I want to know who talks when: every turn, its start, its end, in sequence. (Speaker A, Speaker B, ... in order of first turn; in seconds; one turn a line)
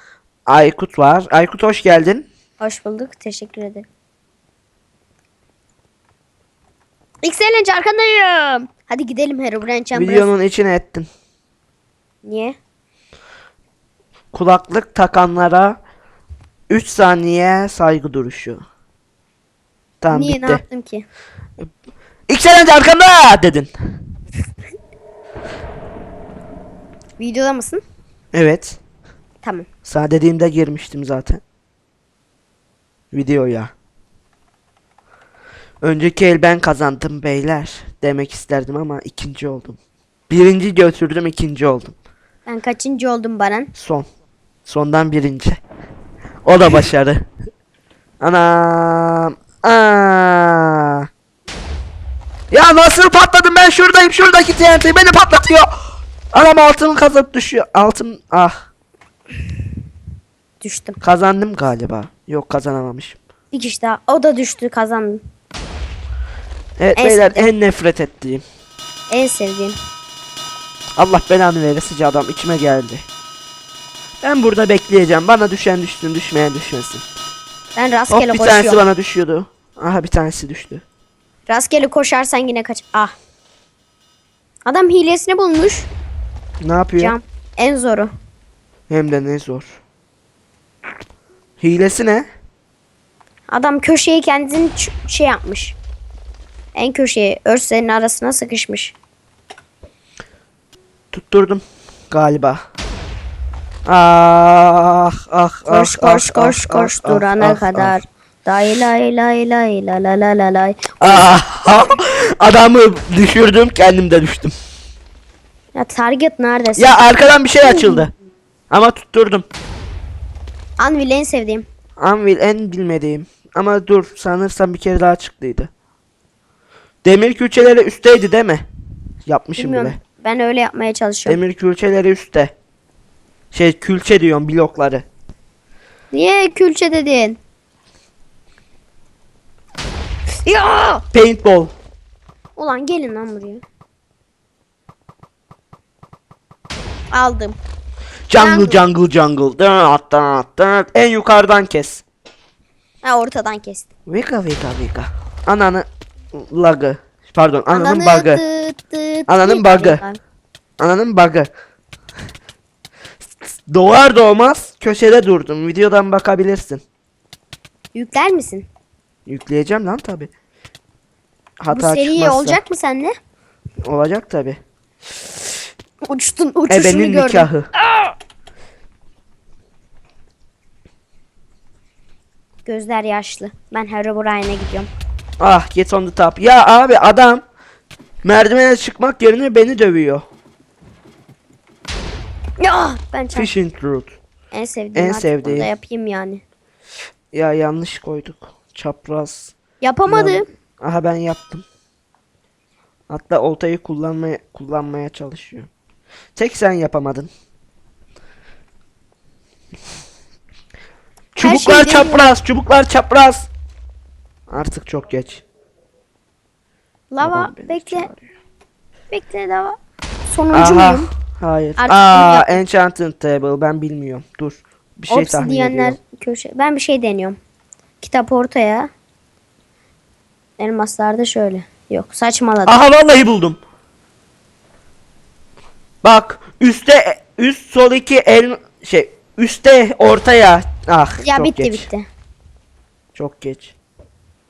Speaker A: 0.5-2.3
Speaker B: 2.6-3.9
Speaker B: 7.2-10.3
Speaker A: 9.9-11.1
Speaker B: 12.2-12.6
Speaker A: 14.3-15.8
Speaker A: 16.7-18.6
Speaker A: 20.0-20.6
Speaker B: 20.1-21.1
Speaker A: 22.3-23.7
Speaker B: 27.2-27.8
Speaker A: 28.3-28.8
Speaker A: 29.8-31.4
Speaker A: 33.1-33.7
Speaker A: 35.8-39.8
Speaker A: 40.3-42.0
Speaker B: 42.5-43.7
Speaker A: 43.7-44.0
Speaker A: 44.7-45.6
Speaker A: 46.5-47.3
Speaker A: 48.2-51.1
Speaker A: 52.5-58.7
Speaker B: 60.6-61.0
Speaker A: 61.0-63.2
Speaker B: 63.5-65.2
Speaker A: 66.8-68.4
Speaker B: 67.0-67.5
Speaker B: 69.1-69.8
Speaker A: 71.0-73.1
Speaker A: 74.2-77.0
Speaker B: 77.8-78.8
Speaker A: 78.1-80.8
Speaker B: 81.5-83.1
Speaker B: 84.7-85.9
Speaker A: 86.6-87.1
Speaker B: 87.0-88.1
Speaker A: 88.9-89.8
Speaker A: 91.6-92.3
Speaker B: 93.5-95.8
Speaker B: 96.7-99.0
Speaker A: 101.1-102.6
Speaker A: 103.9-108.0
Speaker B: 105.7-111.3
Speaker A: 111.0-114.5
Speaker B: 115.7-117.0
Speaker A: 116.8-118.1
Speaker B: 117.6-118.1
Speaker A: 118.7-119.5
Speaker B: 120.8-121.7
Speaker A: 122.0-125.7
Speaker A: 127.0-128.7
Speaker A: 129.2-130.0
Speaker B: 129.6-131.4
Speaker A: 131.2-132.5
Speaker A: 133.5-135.1
Speaker B: 136.1-137.4
Speaker B: 140.4-141.0
Speaker A: 141.1-141.7
Speaker B: 142.6-143.6
Speaker B: 147.1-147.6
Speaker A: 148.3-152.0
Speaker B: 148.4-148.8
Speaker B: 153.0-153.9
Speaker A: 154.1-158.4
Speaker B: 157.7-160.2
Speaker A: 159.3-160.0
Speaker A: 160.8-161.5
Speaker A: 163.5-166.8
Speaker B: 167.9-168.7
Speaker A: 169.3-170.3
Speaker A: 171.6-172.6
Speaker B: 171.7-173.1
Speaker A: 173.8-174.6
Speaker B: 176.1-178.1
Speaker A: 176.7-177.7
Speaker B: 182.6-184.9
Speaker A: 185.4-187.4
Speaker A: 188.2-190.2
Speaker B: 192.6-193.5
Speaker A: 193.3-194.2
Speaker B: 194.5-196.4
Speaker A: 194.9-195.7
Speaker A: 197.3-199.6
Speaker B: 199.8-200.4
Speaker A: 200.1-201.6
Speaker A: 203.1-205.7
Speaker A: 206.4-207.3
Speaker A: 211.4-213.5
Speaker B: 211.4-212.2
Speaker A: 214.5-215.4
Speaker B: 217.1-218.1
Speaker A: 217.2-218.3
Speaker B: 219.1-219.8
Speaker B: 220.3-221.1
Speaker A: 220.5-226.0
Speaker B: 221.8-222.6
Speaker B: 225.1-227.4
Speaker B: 228.0-228.9
Speaker B: 230.6-232.8
Speaker A: 232.7-233.6
Speaker A: 236.0-241.9
Speaker B: 241.2-242.1
Speaker A: 243.1-243.7